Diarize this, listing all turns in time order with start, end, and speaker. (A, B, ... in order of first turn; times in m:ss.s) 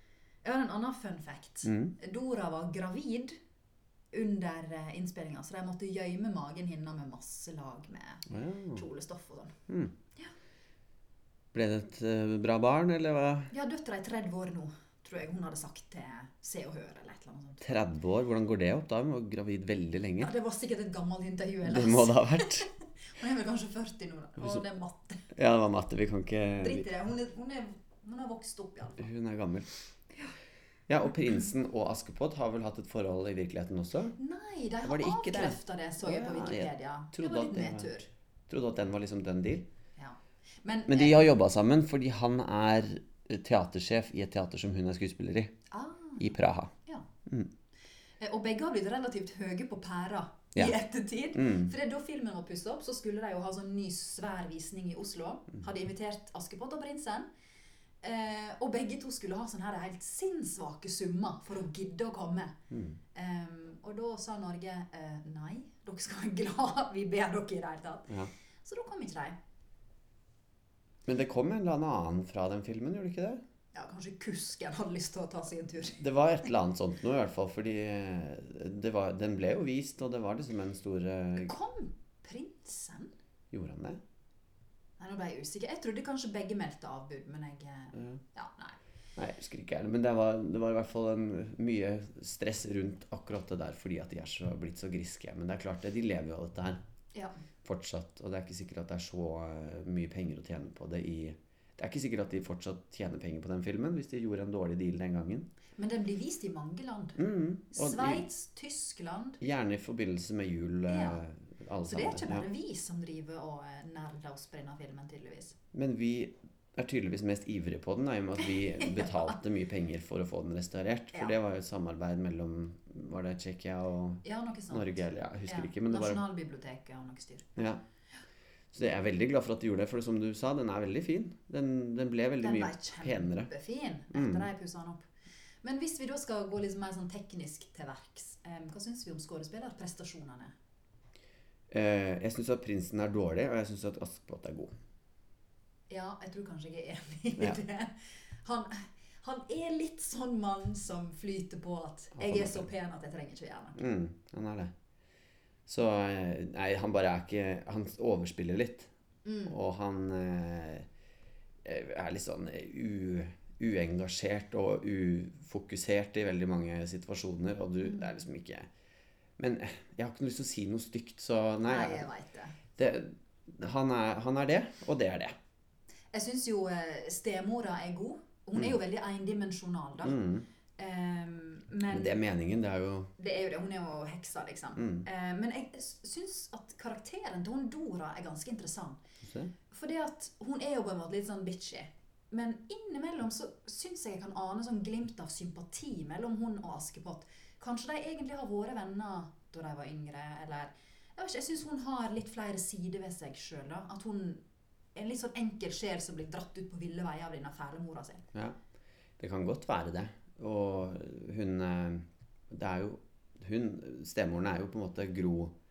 0:00.4-0:03.4 A
0:01.6-0:01.9 B
0:04.1-0:09.6 A
0:08.3-0:08.8 B
0:09.7-0:10.0 B
0:11.5-0:13.5 B
0:13.5-0:17.6 A
0:17.6-0:20.3 B
0:20.2-0:25.3 A
0:21.6-0:22.7 B
0:25.3-0:26.9 B
0:26.6-0:29.1 A
0:29.0-0:29.7 B
0:30.9-0:34.2 B
0:34.2-0:38.1 A
0:34.8-0:37.9 B
0:38.5-0:39.7 B
0:40.0-0:41.3 A
0:40.9-0:45.5 B
0:45.7-0:46.3 A
0:46.2-0:46.7 B
0:47.3-0:47.5 B
0:48.2-0:57.3 A
0:51.4-0:51.7 B
0:58.0-1:02.6 A
1:02.7-1:03.0 B
1:03.1-1:09.4 A
1:11.1-1:13.4 B
1:13.7-1:16.0 A
1:16.0-1:21.5 B
1:21.4-1:23.1 A
1:23.5-1:24.0 B
1:25.0-1:28.8 A
1:28.0-1:28.2 B
1:29.2-1:36.8 B
1:37.6-1:45.5 B
1:45.8-1:47.2 A
1:47.2-1:48.2 B
1:47.7-1:49.4 A
1:49.4-1:52.5 B
1:50.9-1:51.2 A
1:51.8-1:55.6 A
1:55.7-2:06.2 B
1:58.8-1:59.4 A
2:04.2-2:07.6 A
2:08.7-2:13.5 B
2:12.4-2:15.1 A
2:14.1-2:14.5 B
2:15.6-2:20.5 A
2:21.7-2:24.7 B
2:25.9-2:33.8 A
2:32.2-2:32.7 B
2:33.8-2:34.7 B
2:35.7-2:38.9 B
2:39.2-2:39.6 A
2:39.5-2:40.9 B
2:41.6-2:48.7 B
2:47.8-2:48.1 A
2:49.4-2:52.1 B
2:51.6-2:52.6 A
2:52.8-2:55.4 B
2:56.1-3:00.2 A
3:00.0-3:00.5 B
3:00.8-3:02.2 A
3:01.9-3:03.1 B
3:03.2-3:09.0 A
3:04.8-3:05.1 B
3:09.2-3:09.5 B
3:09.7-3:24.4 A
3:25.0-3:28.2 A
3:29.2-3:35.5 B